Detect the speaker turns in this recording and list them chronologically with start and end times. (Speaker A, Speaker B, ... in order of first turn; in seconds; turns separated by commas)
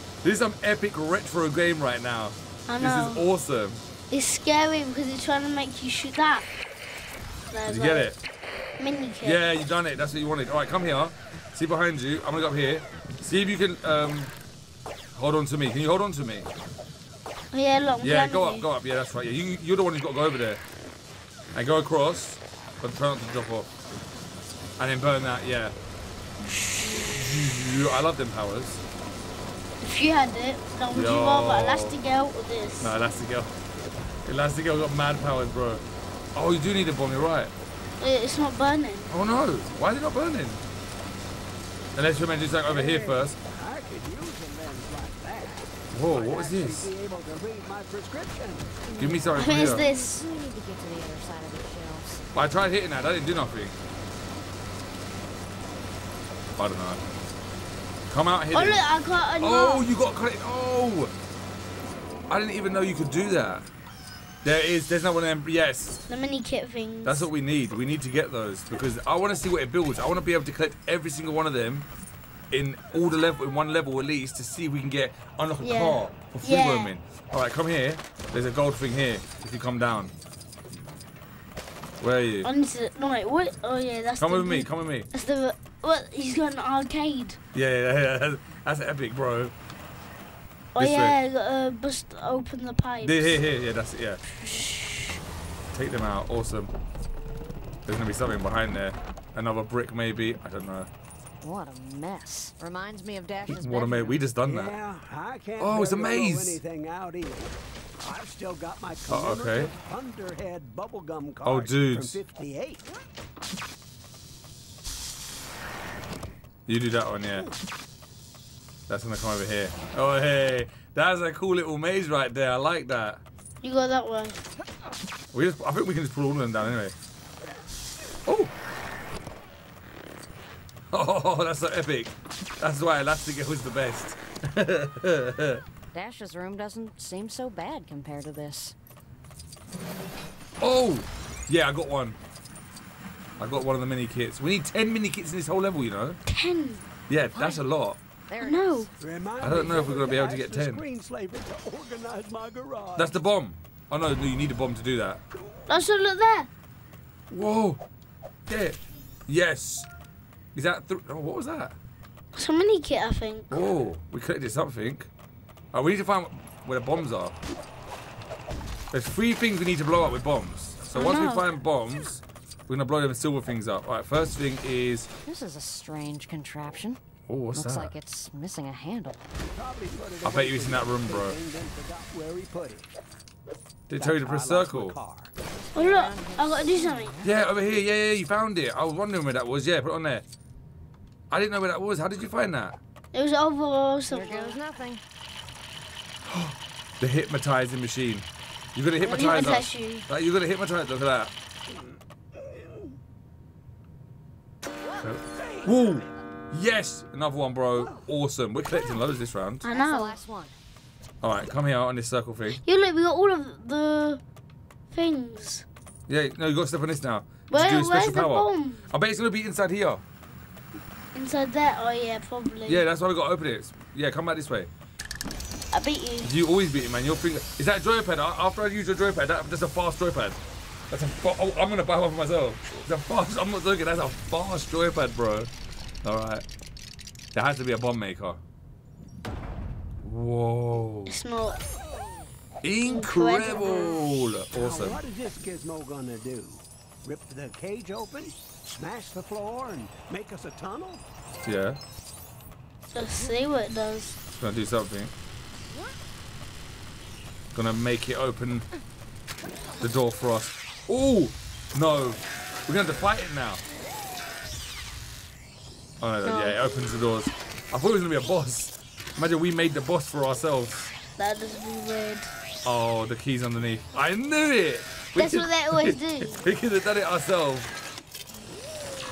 Speaker A: 0.2-3.8, Speaker B: 2.7-3.3, Speaker B: 4.1-6.5, Speaker B: 7.5-8.1, Speaker A: 7.7-8.2, Speaker B: 8.8-9.4, Speaker A: 9.2-14.3, Speaker A: 15.2-16.5, Speaker B: 17.5-18.7, Speaker A: 18.0-20.6, Speaker A: 21.5-23.7, Speaker A: 24.8-25.8, Speaker B: 26.5-27.0, Speaker A: 27.0-28.8, Speaker B: 29.8-33.0, Speaker A: 30.9-32.0, Speaker A: 32.8-33.5, Speaker A: 34.3-37.5, Speaker B: 38.0-39.1, Speaker A: 39.1-40.6, Speaker A: 42.0-43.4, Speaker C: 42.6-48.8, Speaker A: 45.9-46.9, Speaker D: 48.9-52.2, Speaker A: 49.0-49.9, Speaker B: 49.4-50.2, Speaker A: 52.4-53.8, Speaker A: 56.6-57.0, Speaker A: 58.1-58.9, Speaker B: 58.5-59.9, Speaker A: 59.4-61.1, Speaker A: 62.3-63.7, Speaker A: 64.4-66.0, Speaker B: 66.1-67.3, Speaker A: 67.0-71.9, Speaker A: 72.5-80.1, Speaker B: 75.6-76.9, Speaker A: 82.0-82.5, Speaker B: 82.4-87.4, Speaker A: 84.2-85.1, Speaker A: 87.5-89.5, Speaker A: 90.8-91.2, Speaker B: 90.8-93.4, Speaker A: 93.0-94.2, Speaker B: 94.3-95.2, Speaker A: 95.7-96.7, Speaker A: 97.9-100.9, Speaker D: 101.4-104.4, Speaker A: 103.5-104.8, Speaker C: 104.4-112.9, Speaker A: 105.6-106.6, Speaker A: 109.1-109.7, Speaker A: 111.4-112.2, Speaker A: 116.7-117.5, Speaker A: 118.9-123.2, Speaker B: 123.6-124.4, Speaker A: 125.3-127.0, Speaker A: 128.3-128.5, Speaker A: 130.9-135.6, Speaker D: 135.9-138.8, Speaker A: 140.6-142.2, Speaker A: 143.4-146.2, Speaker B: 146.3-146.9, Speaker A: 147.1-148.0, Speaker D: 147.3-147.7, Speaker D: 148.3-148.9, Speaker B: 148.4-148.9, Speaker C: 149.0-153.2, Speaker A: 149.4-150.8, Speaker A: 153.0-155.2, Speaker B: 155.7-156.5, Speaker A: 157.3-157.8, Speaker A: 158.5-159.9, Speaker A: 160.6-161.8, Speaker B: 162.3-163.6, Speaker A: 163.5-165.1, Speaker A: 165.7-167.4, Speaker A: 168.9-175.1, Speaker B: 170.9-171.5, Speaker D: 175.3-177.0, Speaker A: 177.3-178.0, Speaker D: 177.5-179.3, Speaker C: 179.5-182.9, Speaker A: 180.2-181.4, Speaker A: 183.9-185.0, Speaker C: 183.9-185.3, Speaker B: 185.7-187.2, Speaker D: 185.7-187.4, Speaker A: 187.2-190.2, Speaker A: 191.3-192.8, Speaker B: 193.1-194.6, Speaker D: 194.1-195.0, Speaker A: 196.3-201.3, Speaker B: 199.0-200.1, Speaker A: 205.0-209.7, Speaker C: 205.4-205.7, Speaker B: 209.6-210.2, Speaker D: 209.7-210.6, Speaker A: 211.2-212.6, Speaker B: 212.5-214.2, Speaker B: 214.9-215.7, Speaker A: 216.1-220.0, Speaker B: 217.5-218.8, Speaker B: 221.2-222.8, Speaker A: 222.7-224.7, Speaker B: 225.7-226.3, Speaker A: 226.2-230.4, Speaker A: 230.9-235.5, Speaker A: 236.0-236.5, Speaker A: 237.3-238.4, Speaker A: 240.0-241.2, Speaker B: 241.1-241.6, Speaker A: 242.6-245.0, Speaker B: 242.8-244.0, Speaker C: 244.5-251.1, Speaker A: 251.4-251.8, Speaker B: 252.9-254.2, Speaker A: 254.3-255.1, Speaker A: 257.5-258.7, Speaker A: 259.8-263.6, Speaker A: 266.0-270.9, Speaker B: 266.2-266.6, Speaker B: 271.2-272.3, Speaker A: 272.6-277.7, Speaker B: 275.1-276.4